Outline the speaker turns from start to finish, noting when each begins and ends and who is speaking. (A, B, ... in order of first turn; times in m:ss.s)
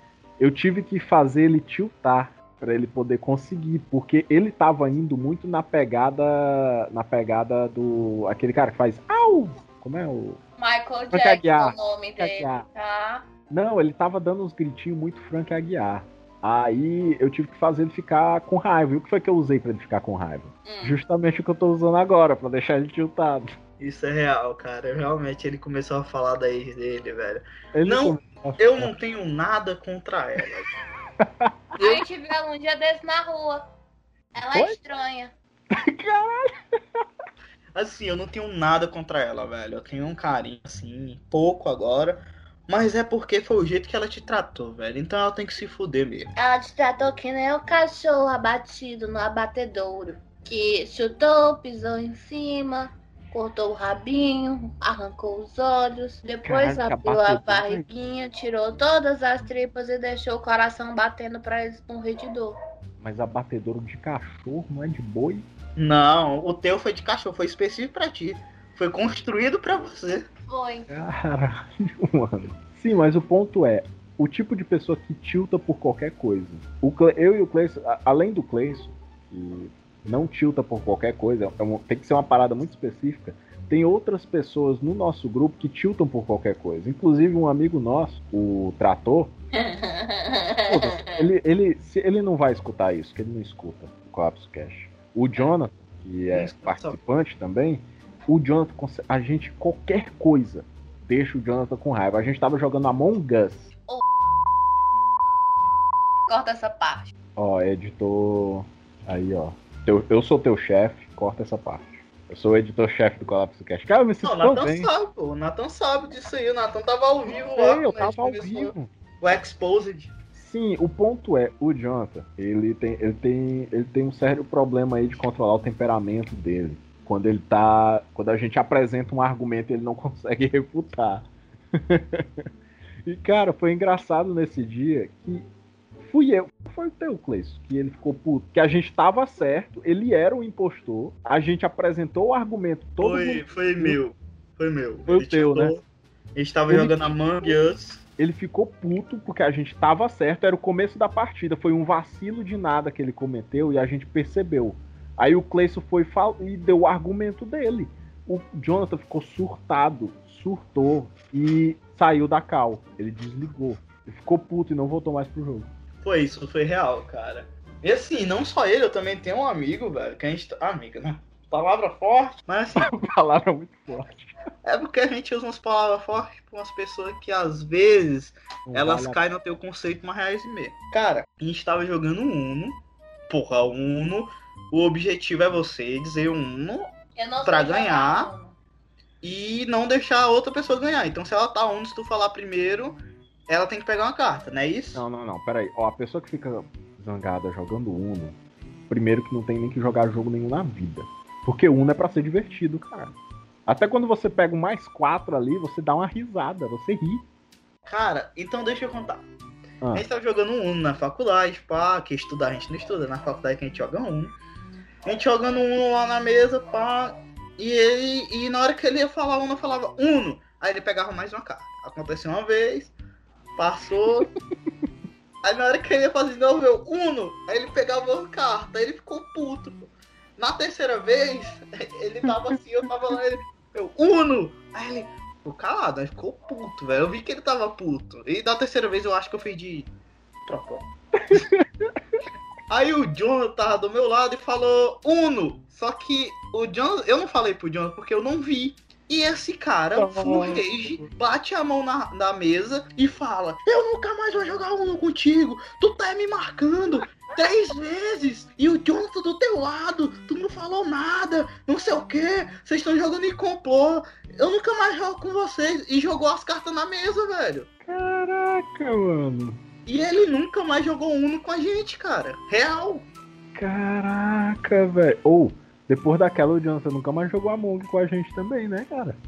0:00.4-0:10.4 A
0:10.6-0:13.3 B
0:11.1-0:12.7 A
0:13.5-0:23.5 A
0:20.6-0:21.0 B
0:23.8-0:30.7 C
0:27.7-0:28.9 A
0:31.2-0:31.8 A
0:31.8-0:32.0 C
0:31.8-0:33.6 B
0:34.3-0:35.3 B
0:35.7-0:37.0 A
0:37.7-0:46.3 C
0:46.4-1:02.6 B
0:56.4-0:57.8 A
1:03.0-1:05.4 A
1:05.8-1:10.2 C
1:10.4-1:10.9 B
1:10.9-1:29.3 A
1:29.5-1:31.3 B
1:30.7-1:43.7 A
1:36.3-1:37.0 C
1:46.3-1:47.1 B
1:47.4-1:54.9 A
1:54.2-2:00.1 C
1:57.5-1:58.9 A
2:00.3-2:12.5 A
2:13.0-2:15.4 A
2:16.0-2:24.0 A
2:23.0-2:25.8 C
2:25.1-2:25.7 A
2:26.4-2:28.0 C
2:26.7-2:27.5 A
2:28.2-2:45.7 A
2:46.0-2:52.9 C
2:52.8-2:54.4 A
2:54.6-3:06.9 C
2:58.7-2:59.2 A
3:07.2-3:08.5 B
3:07.4-3:08.3 C
3:09.2-3:15.0 C
3:14.9-3:18.4 A
3:18.9-3:23.1 A
3:23.6-3:27.2 A
3:27.9-3:29.2 C
3:29.9-3:34.3 C
3:35.0-3:42.9 C
3:43.6-3:44.3 C
3:44.2-3:44.9 A
3:45.4-3:59.9 C
3:52.2-3:52.6 A
4:00.5-4:01.4 C
4:01.2-4:02.0 A
4:02.7-4:27.7 C
4:10.0-4:11.1 A
4:27.8-4:29.6 A
4:29.8-4:33.0 C
4:33.5-4:39.2 A